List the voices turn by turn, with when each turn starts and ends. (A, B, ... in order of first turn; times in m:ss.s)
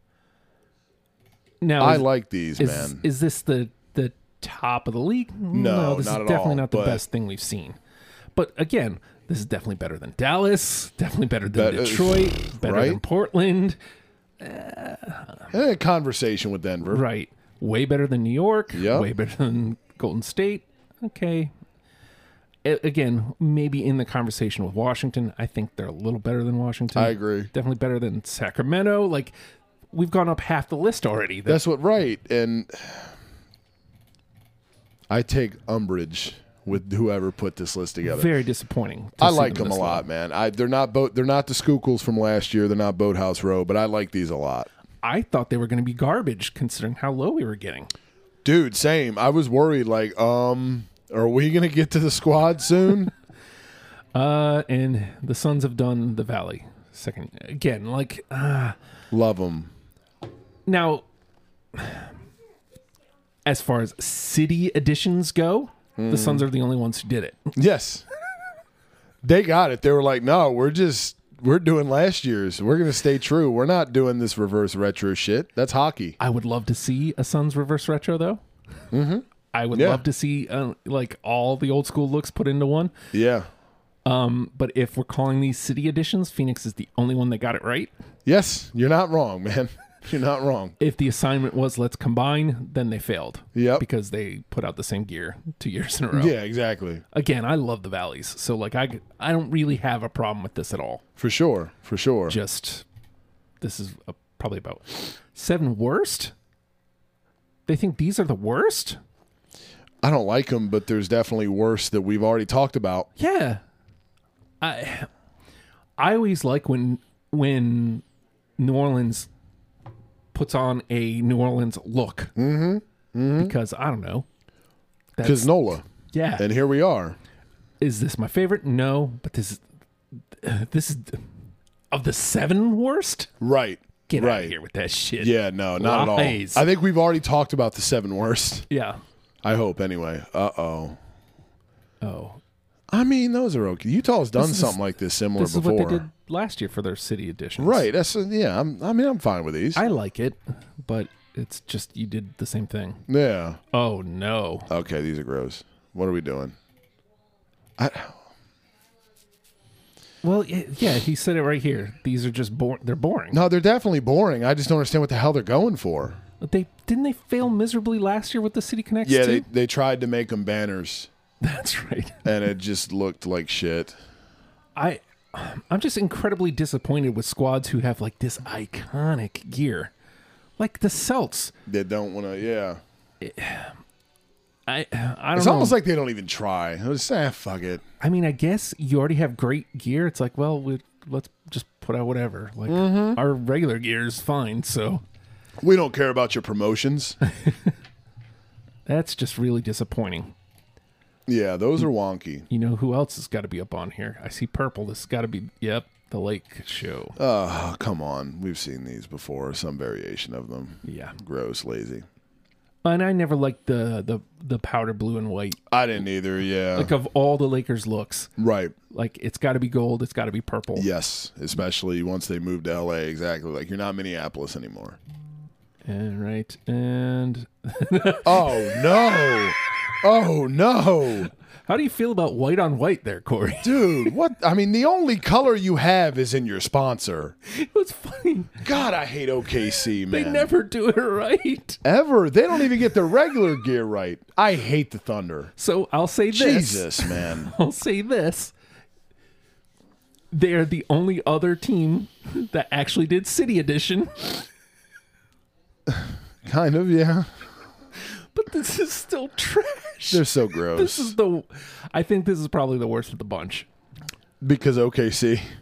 0:01.6-0:02.1 A
0:01.8-0:03.0 B
0:02.6-0:07.8 A
0:05.5-0:07.0 B
0:08.4-0:13.8 A
0:11.5-0:13.0 B
0:14.4-0:15.5 A
0:15.5-0:17.0 B
0:16.9-0:21.5 A
0:18.7-0:19.1 B
0:22.6-0:29.3 A
0:27.0-0:27.5 B
0:29.9-0:31.6 A
0:31.5-0:33.1 B
0:35.1-0:38.3 B
0:38.0-0:40.1 A
0:39.2-0:44.7 B
0:45.0-0:47.9 A
0:48.4-0:53.1 B
0:54.2-0:58.8 A
0:59.1-0:59.7 B
1:00.7-1:01.0 A
1:01.7-1:02.1 A
1:03.5-1:07.5 A
1:06.0-1:06.5 B
1:07.6-1:08.0 B
1:09.2-1:16.2 B
1:16.2-1:18.4 A
1:18.9-1:20.0 B
1:19.5-1:23.0 A
1:23.1-1:23.5 B
1:24.1-1:27.9 A
1:28.3-1:30.8 B
1:30.8-1:36.4 A
1:33.6-1:33.8 B
1:36.1-1:37.0 B
1:37.1-1:41.0 A
1:41.2-1:42.4 B
1:42.3-1:42.8 A
1:43.6-1:46.3 A
1:47.7-1:49.0 A
1:50.0-1:53.1 B
1:53.2-1:53.6 A
1:54.6-1:55.1 A
1:56.0-1:58.0 A
1:58.6-1:59.3 A
2:00.3-2:02.3 A
2:02.4-2:03.5 B
2:03.4-2:04.3 A
2:05.2-2:05.5 A
2:05.2-2:05.8 B
2:06.1-2:06.5 A
2:06.4-2:07.2 B
2:07.8-2:09.6 A
2:10.3-2:11.3 A
2:11.9-2:13.3 A
2:13.4-2:14.5 B
2:14.1-2:16.6 A
2:15.2-2:18.7 B
2:18.7-2:19.0 A
2:19.4-2:21.0 B
2:22.0-2:22.4 A
2:22.9-2:26.0 B
2:24.4-2:24.8 A
2:25.4-2:27.9 A
2:27.6-2:29.8 B
2:29.8-2:33.1 A
2:33.1-2:33.6 B
2:33.7-2:34.7 A
2:34.7-2:36.6 B
2:37.8-2:38.2 B
2:40.2-2:43.4 A
2:43.3-2:46.2 B
2:46.4-2:49.4 A
2:49.0-2:51.1 B
2:51.4-2:52.2 A
2:52.2-2:54.0 B
2:54.8-2:59.9 A
3:00.6-3:01.5 A
3:01.7-3:02.8 B
3:03.2-3:03.8 A
3:04.7-3:05.8 A
3:05.4-3:07.8 B
3:08.0-3:15.0 A
3:12.7-3:13.2 B
3:15.6-3:17.2 B
3:17.3-3:17.8 A
3:18.9-3:20.3 A
3:21.3-3:22.5 B
3:22.5-3:27.2 A
3:27.2-3:32.1 B
3:30.8-3:31.2 A
3:32.8-3:35.6 A
3:35.7-3:36.9 B
3:36.7-3:38.3 A
3:38.4-3:38.7 B
3:38.9-3:40.9 A
3:40.8-3:45.0 B
3:45.8-3:49.5 A
3:48.2-3:51.3 B
3:51.7-3:54.1 A
3:53.6-3:57.4 B
3:57.5-3:58.6 A
3:58.6-4:00.5 B
4:00.1-4:01.8 A
4:01.8-4:05.5 B
4:05.6-4:08.5 A
4:06.3-4:07.5 B
4:10.3-4:14.5 A
4:15.9-4:17.3 B
4:18.1-4:23.7 A
4:20.1-4:21.2 B
4:24.4-4:25.4 B